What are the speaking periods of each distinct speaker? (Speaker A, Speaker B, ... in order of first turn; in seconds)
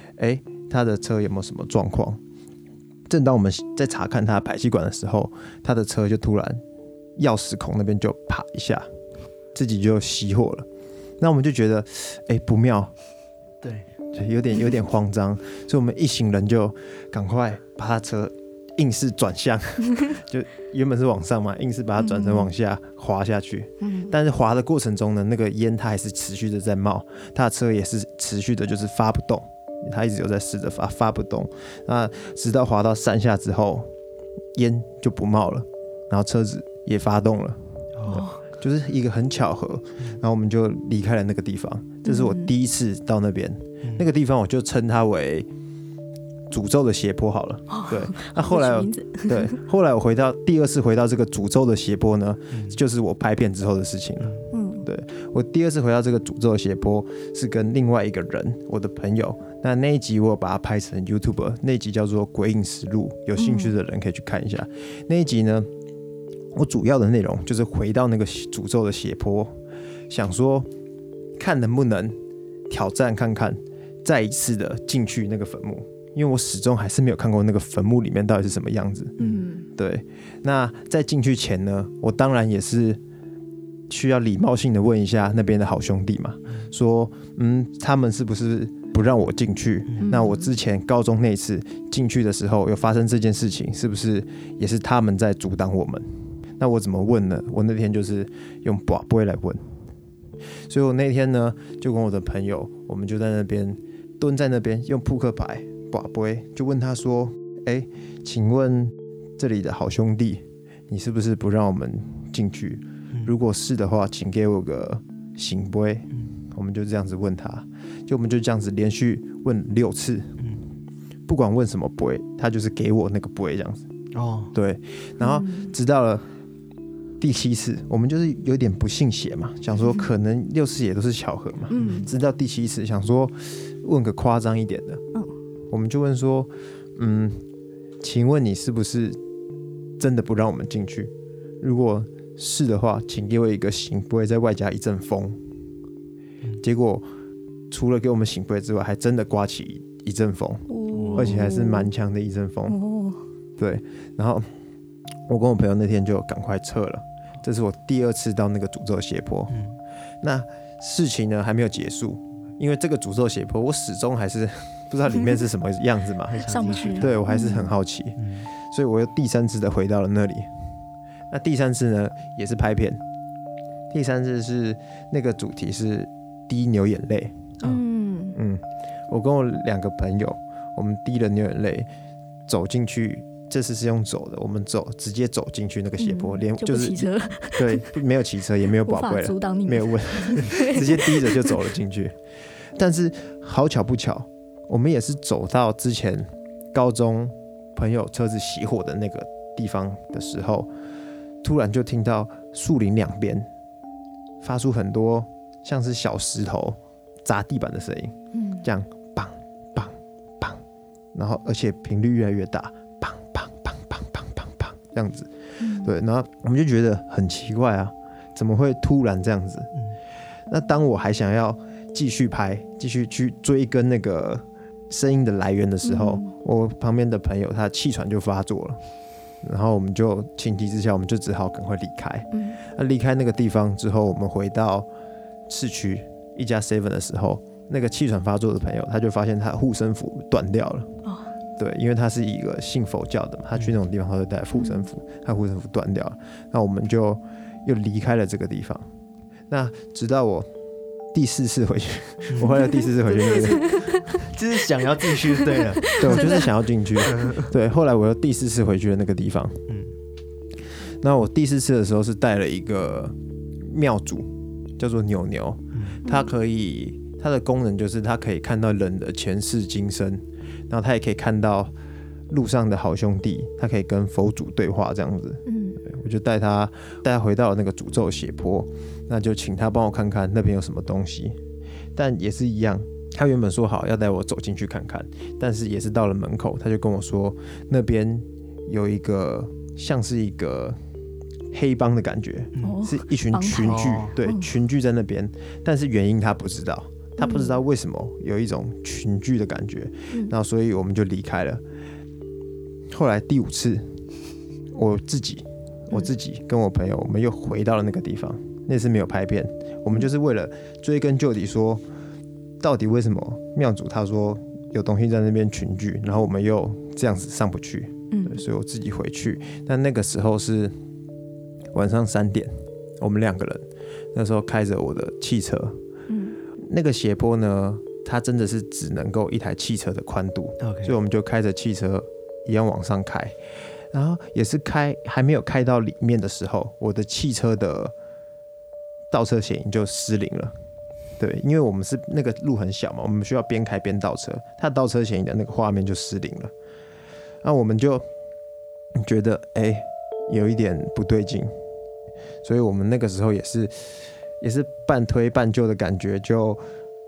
Speaker A: 0.2-2.2, 3.1-6.6, 7.2-8.9, 9.6-10.7, 11.2-12.9, 14.1-33.9, 34.5-45.5, 46.5-65.7, 66.5-69.5, 70.1-70.7, 71.4-72.2, 72.7-79.2, 79.8-83.0, 83.9-96.0, 96.6-99.6, 100.7-120.4, 121.3-123.8, 124.5-126.3, 127.2-135.0, 135.7-137.4, 138.0-139.2, 140.0-145.4, 146.6-147.1, 147.7-152.8, 153.6-154.5, 155.3-159.6, 160.2-170.5, 171.3-173.0, 173.9-177.5, 178.3-181.9, 182.5-192.2, 192.8-200.7, 201.4-203.5, 204.4-210.6, 211.1-219.7, 220.5-228.8, 229.4-234.9, 235.5-240.9, 241.6-248.8, 249.5-250.5, 251.1-253.8, 256.0-259.7, 261.0-271.7, 272.3-281.4, 281.9-290.8, 291.5-301.6, 302.9-304.0, 304.7-311.8, 312.6-320.7, 321.7-325.8, 326.6-333.4, 333.9-337.9, 339.1-340.6, 341.2-346.5, 347.4-348.1, 348.9-351.5, 352.4-356.6
Speaker B: 13.6-13.9, 38.0-38.3, 43.8-44.1, 52.5-52.8, 54.2-54.5, 79.2-79.5, 124.1-124.5, 131.7-132.1, 150.9-151.4, 159.5-159.8, 166.3-167.1, 168.2-168.5, 252.3-252.6, 253.1-256.4, 257.0-257.5, 265.7-266.0, 293.6-294.1, 330.6-330.9
Speaker C: 22.0-22.5, 23.8-24.1, 38.1-38.4, 42.0-42.5, 47.7-49.5, 54.5-54.9, 63.4-63.7, 79.2-79.7, 90.0-90.5, 125.2-125.8, 131.7-132.1, 150.7-151.9, 152.7-153.2, 166.5-167.7, 177.6-178.4, 186.0-187.9, 188.8-191.6, 208.3-208.7, 215.6-215.9, 225.8-226.3, 232.3-232.6, 244.6-244.9, 253.2-254.0, 255.3-256.5, 266.1-266.3, 275.5-275.8, 292.6-294.5, 297.2-297.6, 318.1-318.4, 326.1-326.4